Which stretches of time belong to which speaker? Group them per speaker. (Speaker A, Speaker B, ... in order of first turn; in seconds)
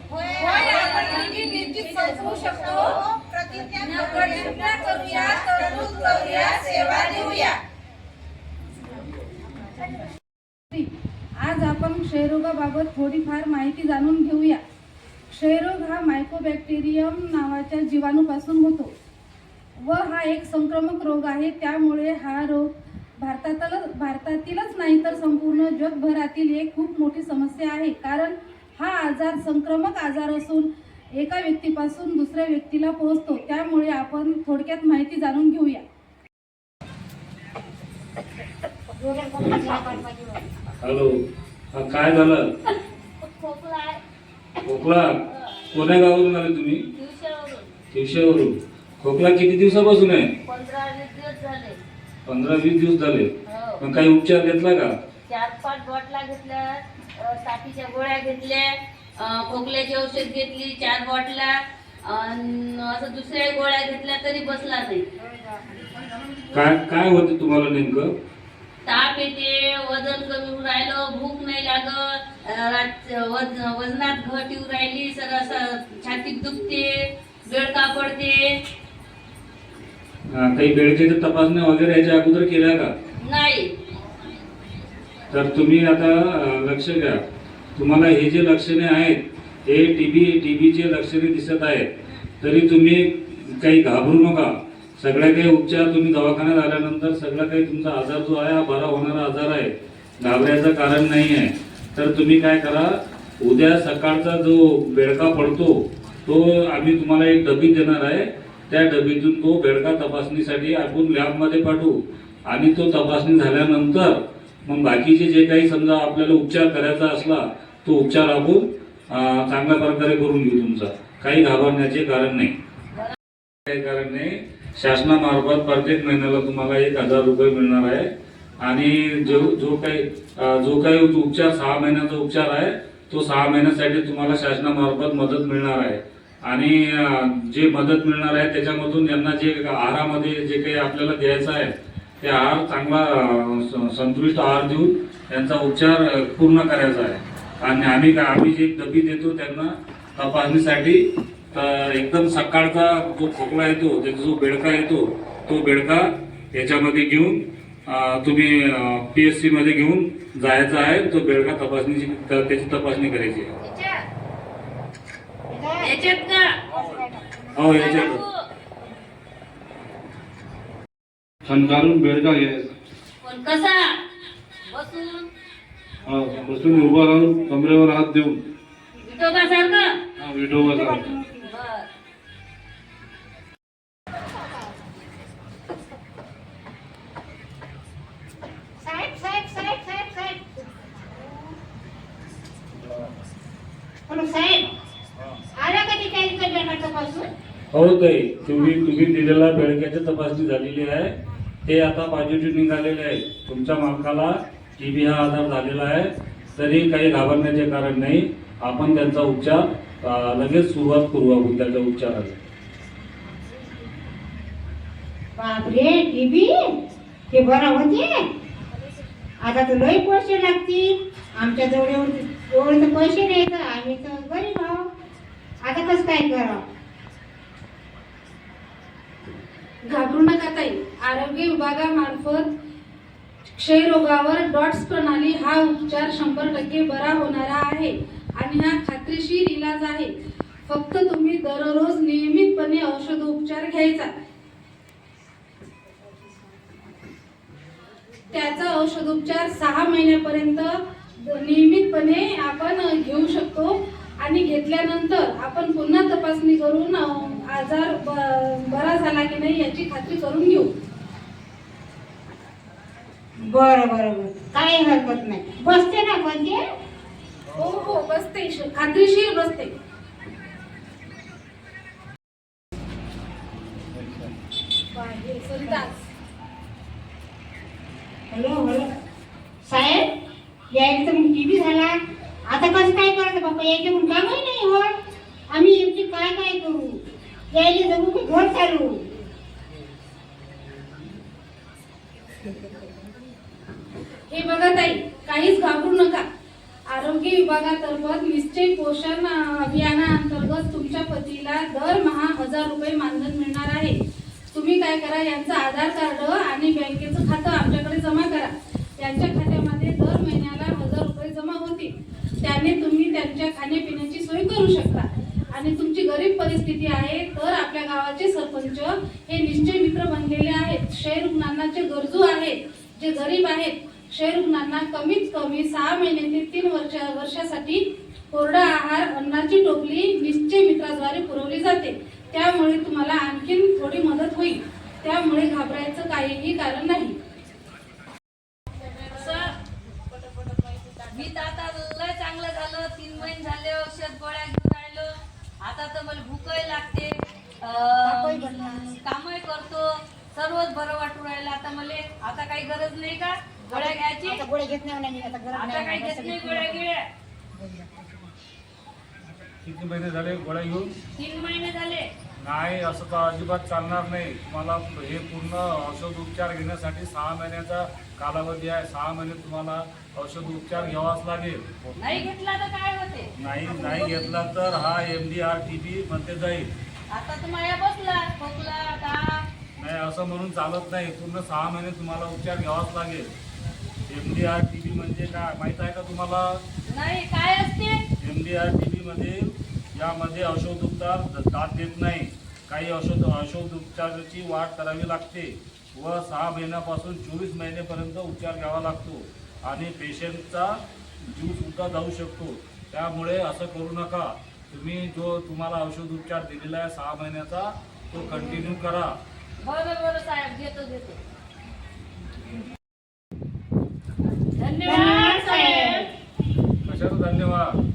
Speaker A: 0.3-1.9, 3.7-7.6, 43.2-44.0, 45.3-45.5, 47.0-47.7, 50.5-51.8, 53.5-53.8, 55.3-65.0, 68.8-76.9, 77.5-78.4, 83.2-83.7, 163.6-164.0, 165.8-166.5, 167.7-168.3, 173.2-173.9, 174.7-175.3, 179.0-179.9, 181.4-181.9, 339.0-339.5, 341.1-354.4, 355.5-357.0, 361.2-362.1, 371.9-373.3, 377.1-379.4, 386.9-388.0, 409.6-411.2, 414.4-416.1
Speaker B: 0.7-3.0, 3.9-6.5, 10.7-14.6, 15.3-18.9, 19.8-35.8, 229.9-232.5, 233.5-240.1, 240.7-244.1, 248.3-260.7, 267.6-269.7, 274.9-276.0, 294.3-296.2, 296.9-304.0, 304.5-337.2
Speaker C: 3.1-3.7, 39.0-40.5, 165.5-166.0, 166.7-167.9, 180.6-181.5, 188.8-191.5, 194.1-194.7, 195.5-197.3, 215.4-216.7, 217.3-218.2, 219.4-224.9, 225.6-226.6, 263.4-266.6, 278.3-278.9, 279.6-280.1, 280.8-282.0, 282.5-284.9, 285.5-287.0, 287.5-289.0, 348.0-348.9, 353.7-356.8, 357.6-358.2, 414.8-416.1
Speaker D: 40.8-41.2, 41.7-42.5, 44.6-45.2, 45.7-46.8, 47.9-50.3, 52.3-54.9, 66.5-68.1, 80.3-82.9, 85.3-87.2, 87.8-91.9, 92.4-105.7, 106.2-112.0, 112.5-122.5, 123.7-128.1, 128.6-151.0, 151.5-163.5, 167.6-168.2, 197.7-201.1, 201.7-212.4, 273.9-274.3, 359.6-360.9, 362.4-372.3, 373.4-376.7, 379.8-383.3, 384.1-386.6, 388.2-400.7, 401.2-409.2, 416.9-417.7
Speaker E: 171.4-172.7, 176.1-178.4, 180.2-181.2